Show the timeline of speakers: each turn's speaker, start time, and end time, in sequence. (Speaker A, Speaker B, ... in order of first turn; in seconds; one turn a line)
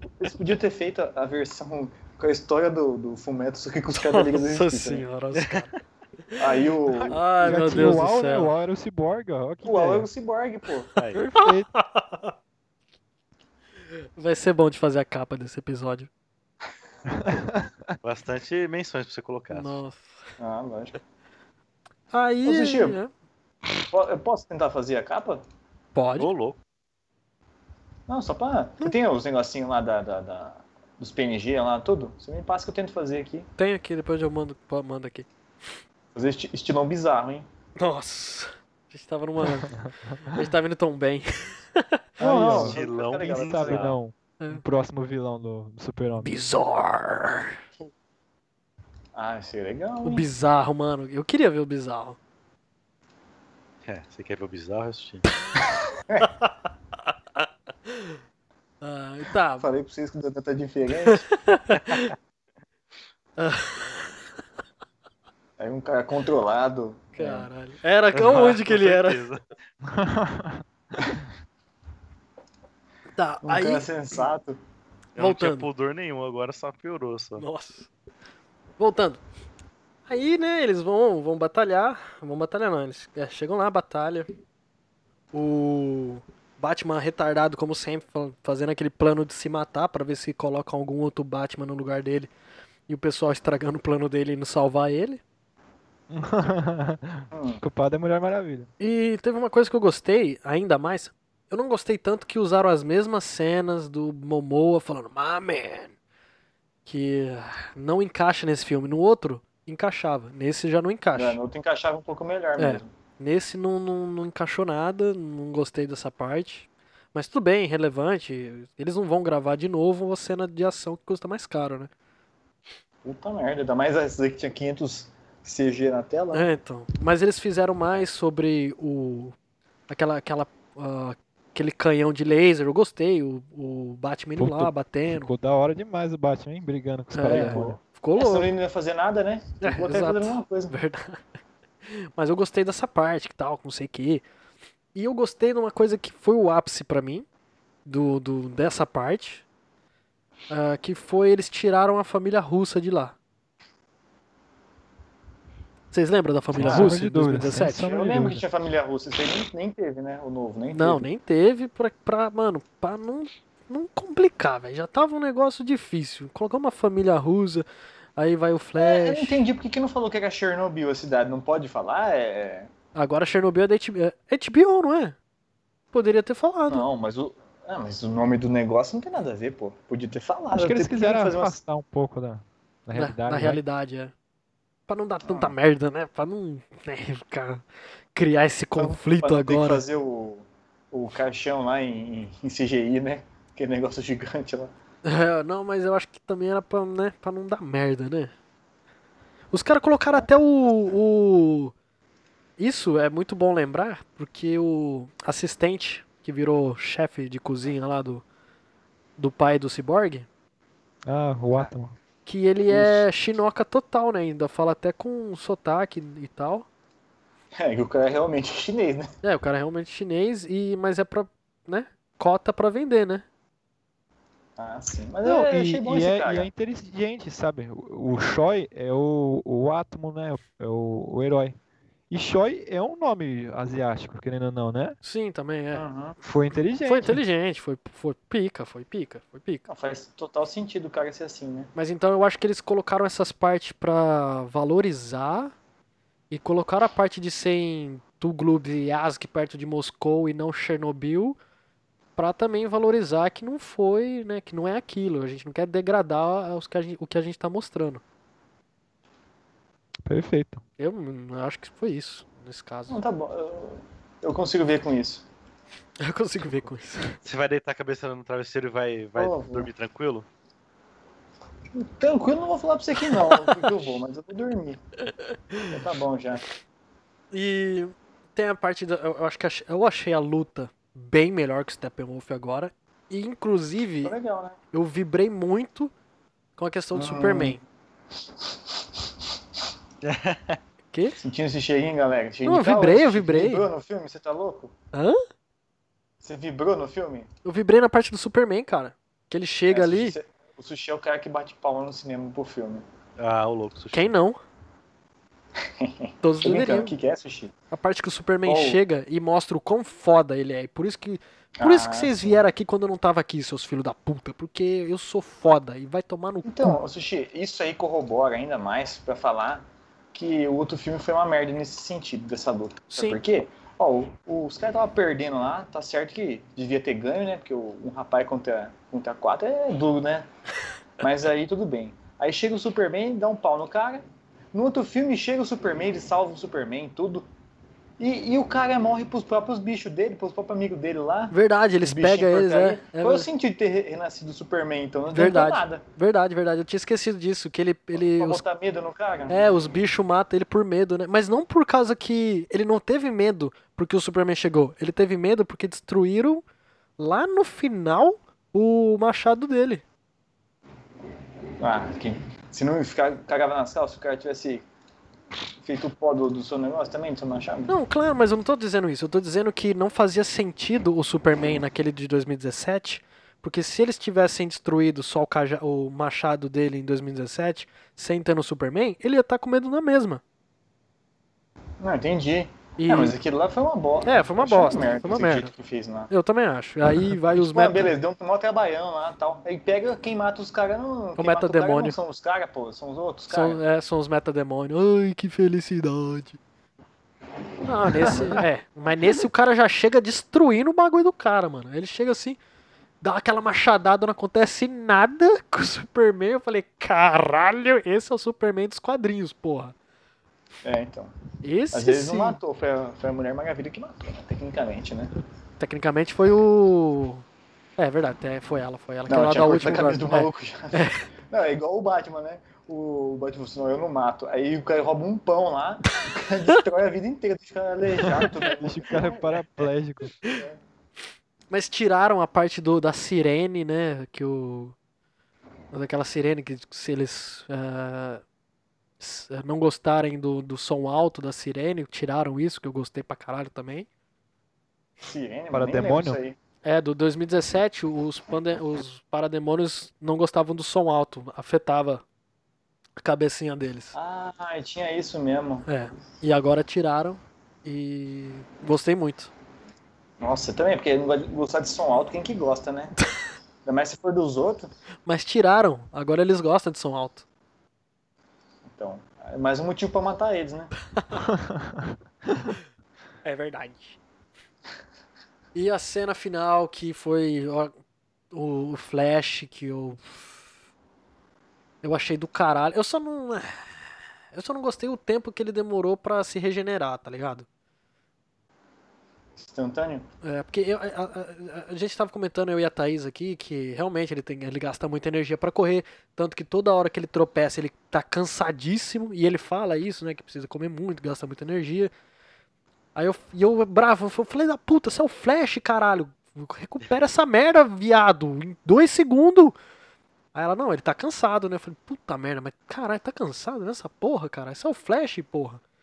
Speaker A: 0.2-5.0
Speaker B: 3.9-5.7
Speaker C: 5.3-5.7
Speaker A: 6.4-7.8
Speaker B: 7.1-8.5
Speaker D: 7.4-10.1
Speaker A: 9.6-10.9
Speaker C: 11.0-11.2
Speaker D: 11.1-11.7
Speaker B: 11.3-12.3
Speaker B: 14.2-16.1
Speaker D: 17.1-17.9
Speaker C: 18.0-19.8
Speaker B: 19.5-20.1
Speaker A: 20.4-21.0
Speaker B: 22.1-23.1
Speaker A: 22.4-23.0
Speaker A: 23.9-25.4
Speaker B: 25.9-26.3
Speaker C: 26.2-26.6
Speaker A: 28.1-33.5
Speaker B: 33.6-35.3
Speaker A: 36.1-37.5
Speaker B: 37.8-39.7
Speaker D: 39.7-40.5
Speaker B: 40.3-42.0
Speaker D: 42.2-42.8
Speaker A: 42.2-43.9
Speaker C: 42.5-44.0
Speaker D: 43.3-46.4
Speaker B: 46.2-47.6
Speaker A: 49.1-50.3
Speaker B: 50.0-52.2
Speaker C: 53.8-55.2
Speaker B: 57.9-58.2
Speaker B: 58.8-59.6
Speaker A: 59.6-61.2
Speaker B: 61.1-62.1
Speaker B: 63.4-64.0
Speaker A: 65.6-67.5
Speaker B: 67.2-69.2
Speaker C: 68.1-69.5
Speaker D: 69.8-71.2
Speaker B: 73.1-73.9
Speaker A: 73.4-74.6
Speaker C: 75.2-77.4
Speaker B: 75.2-75.7
Speaker B: 77.4-77.9
Speaker B: 78.8-79.2
Speaker B: 80.1-84.3
Speaker B: 85.3-92.3
Speaker B: 92.9-95.2
Speaker D: 96.1-98.7
Speaker A: 97.3-97.6
Speaker B: 98.8-105.9
Speaker B: 106.8-111.4
Speaker A: 111.1-112.9
Speaker B: 112.6-121.9
Speaker A: 123.0-126.5
Speaker B: 126.3-129.3
Speaker B: 129.9-135.3
Speaker D: 134.4-137.8
Speaker B: 137.1-138.5
Speaker A: 137.3-140.8
Speaker B: 139.6-141.2
Speaker B: 141.8-144.2
Speaker B: 144.9-147.2
Speaker B: 147.8-149.4
Speaker B: 150.5-153.2
Speaker B: 155.9-157.8
Speaker D: 156.5-158.4
Speaker A: 156.6-157.0
Speaker A: 157.8-161.0
Speaker B: 160.7-167.6
Speaker B: 168.2-169.4
Speaker A: 168.8-172.7
Speaker B: 172.9-175.2
Speaker B: 175.9-176.8
Speaker A: 176.7-181.5
Speaker D: 180.5-183.6
Speaker B: 182.9-184.1
Speaker B: 184.9-189.8
Speaker A: 185.2-185.5
Speaker A: 188.8-194.7
Speaker B: 195.0-198.3
Speaker B: 199.5-201.7
Speaker B: 202.6-208.2
Speaker B: 209.2-210.3
Speaker D: 211.1-211.9
Speaker B: 212.2-216.7
Speaker A: 212.7-213.1
Speaker A: 217.6-219.1
Speaker B: 219.2-223.2
Speaker A: 224.6-226.5
Speaker D: 225.2-231.6
Speaker D: 232.1-235.0
Speaker B: 235.0-235.8
Speaker A: 235.7-236.2
Speaker D: 236.2-237.2
Speaker B: 236.8-239.6
Speaker A: 239.7-241.7
Speaker B: 241.7-245.5
Speaker B: 246.3-251.4
Speaker B: 252.2-258.0
Speaker D: 260.1-260.6
Speaker B: 260.8-263.0
Speaker A: 262.9-265.2
Speaker B: 266.0-267.2
Speaker C: 267.2-270.2
Speaker A: 269.2-269.7
Speaker A: 271.7-274.8
Speaker B: 273.1-273.7
Speaker B: 275.0-275.7
Speaker A: 275.7-276.4
Speaker B: 277.3-284.1
Speaker A: 284.0-284.6
Speaker B: 284.7-285.9
Speaker B: 286.6-287.6
Speaker A: 286.9-287.6
Speaker C: 290.0-290.6
Speaker A: 291.2-294.7
Speaker B: 292.4-293.6
Speaker B: 294.9-295.2
Speaker A: 296.2-297.3
Speaker B: 297.4-300.1
Speaker A: 299.7-302.8
Speaker C: 303.2-304.1
Speaker B: 303.9-304.4
Speaker A: 305.8-307.5
Speaker B: 306.2-306.9
Speaker B: 307.7-316.8
Speaker A: 308.4-308.8
Speaker A: 311.6-312.4
Speaker A: 316.4-330.3
Speaker B: 322.9-323.2
Speaker A: 331.0-337.2
Speaker A: 338.0-345.8
Speaker B: 341.3-343.3
Speaker B: 345.1-348.4
Speaker A: 347.9-349.4
Speaker B: 349.3-356.4
Speaker B: 357.0-359.8
Speaker A: 361.6-364.6
Speaker A: 365.6-367.7
Speaker B: 367.7-380.2
Speaker A: 381.8-386.1
Speaker B: 382.8-383.1
Speaker B: 384.0-385.5
Speaker B: 386.1-387.9
Speaker A: 387.3-393.6
Speaker B: 391.2-392.0
Speaker B: 393.3-396.4
Speaker B: 397.6-402.4
Speaker A: 398.0-398.4
Speaker B: 403.0-409.7
Speaker A: 410.6-411.1
Speaker B: 411.4-412.4
Speaker A: 411.7-415.1
Speaker B: 415.6-417.2
Speaker B: 417.8-421.0
Speaker A: 419.1-429.4
Speaker D: 428.4-430.1
Speaker A: 430.2-430.6
Speaker B: 431.5-434.8
Speaker B: 435.7-438.2
Speaker B: 439.0-443.9
Speaker A: 445.0-446.4
Speaker D: 445.5-446.2
Speaker B: 446.6-452.0
Speaker B: 453.0-453.9
Speaker A: 453.9-455.6
Speaker B: 455.6-459.3
Speaker A: 460.2-462.9
Speaker A: 463.6-464.7
Speaker B: 465.1-467.2
Speaker A: 468.7-470.7
Speaker B: 471.0-471.2
Speaker D: 471.1-472.5
Speaker B: 473.2-474.0
Speaker B: 475.5-477.7
Speaker B: 478.3-480.3
Speaker B: 481.8-483.8
Speaker B: 484.3-487.4
Speaker A: 489.4-490.1
Speaker B: 490.2-501.9
Speaker B: 502.9-509.6
Speaker B: 510.3-515.6